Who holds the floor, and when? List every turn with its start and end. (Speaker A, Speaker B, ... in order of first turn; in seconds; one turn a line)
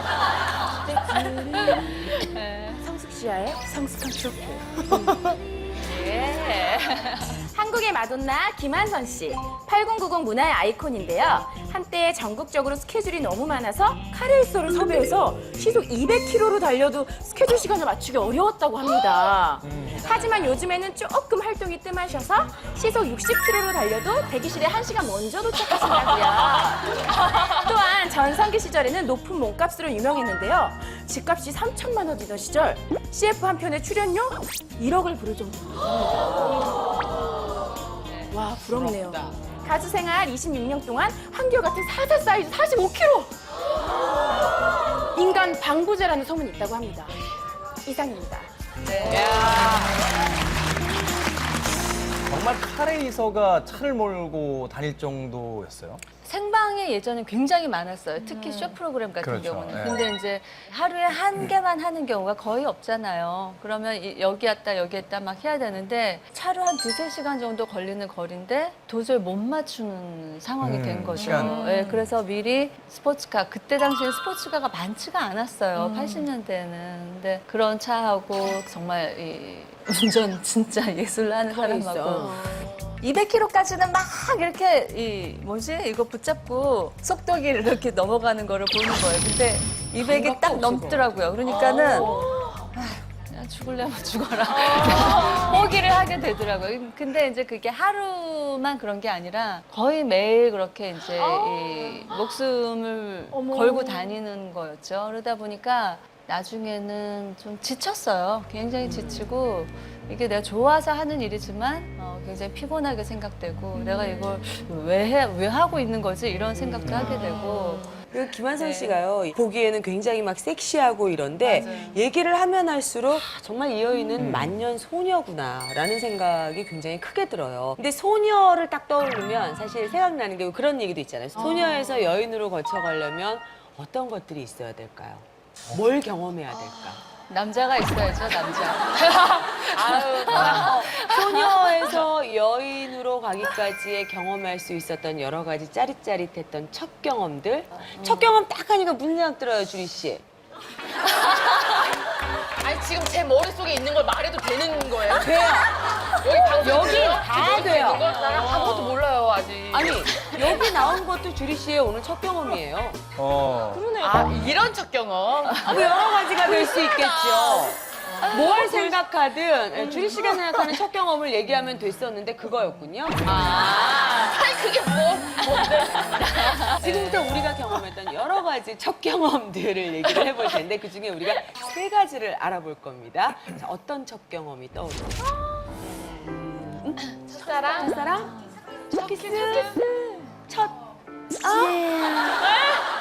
Speaker A: 0.7-2.2
Speaker B: 2.2-2.8
Speaker A: 2.8-5.3
Speaker B: 5.8-7.4
Speaker A: 7.5-36.7
Speaker C: 19.8-20.6
Speaker A: 38.3-43.4
Speaker C: 38.8-39.2
Speaker A: 45.1-47.2
Speaker A: 47.8-48.5
Speaker B: 48.8-49.4
Speaker A: 49.1-49.8
Speaker D: 49.1-49.9
Speaker C: 49.3-49.7
Speaker E: 52.3-56.0
Speaker B: 56.2-119.0
Speaker A: 58.2-58.7
Speaker E: 59.2-60.1
Speaker E: 70.6-71.6
Speaker A: 71.3-71.7
Speaker A: 75.8-76.2
Speaker C: 81.5-82.4
Speaker C: 90.0-92.5
Speaker A: 91.5-92.5
Speaker A: 94.5-95.7
Speaker A: 101.1-102.2
Speaker A: 103.3-104.2
Speaker C: 108.8-109.3
Speaker C: 116.6-117.3
Speaker E: 116.9-117.2
Speaker C: 118.1-137.0
Speaker B: 121.4-122.0
Speaker E: 124.2-124.6
Speaker B: 137.3-142.0
Speaker D: 139.8-140.7
Speaker C: 139.8-150.2
Speaker B: 148.0-148.3
Speaker D: 151.1-151.8
Speaker D: 152.6-155.3
Speaker C: 155.1-159.0
Speaker D: 156.2-160.5
Speaker C: 159.7-163.0
Speaker E: 163.2-163.9
Speaker A: 163.7-164.5
Speaker D: 164.0-168.8
Speaker C: 165.5-174.1
Speaker D: 173.3-177.3
Speaker C: 176.2-188.4
Speaker A: 187.3-188.2
Speaker C: 188.9-189.8
Speaker A: 189.0-190.1
Speaker C: 190.5-190.8
Speaker C: 191.4-192.6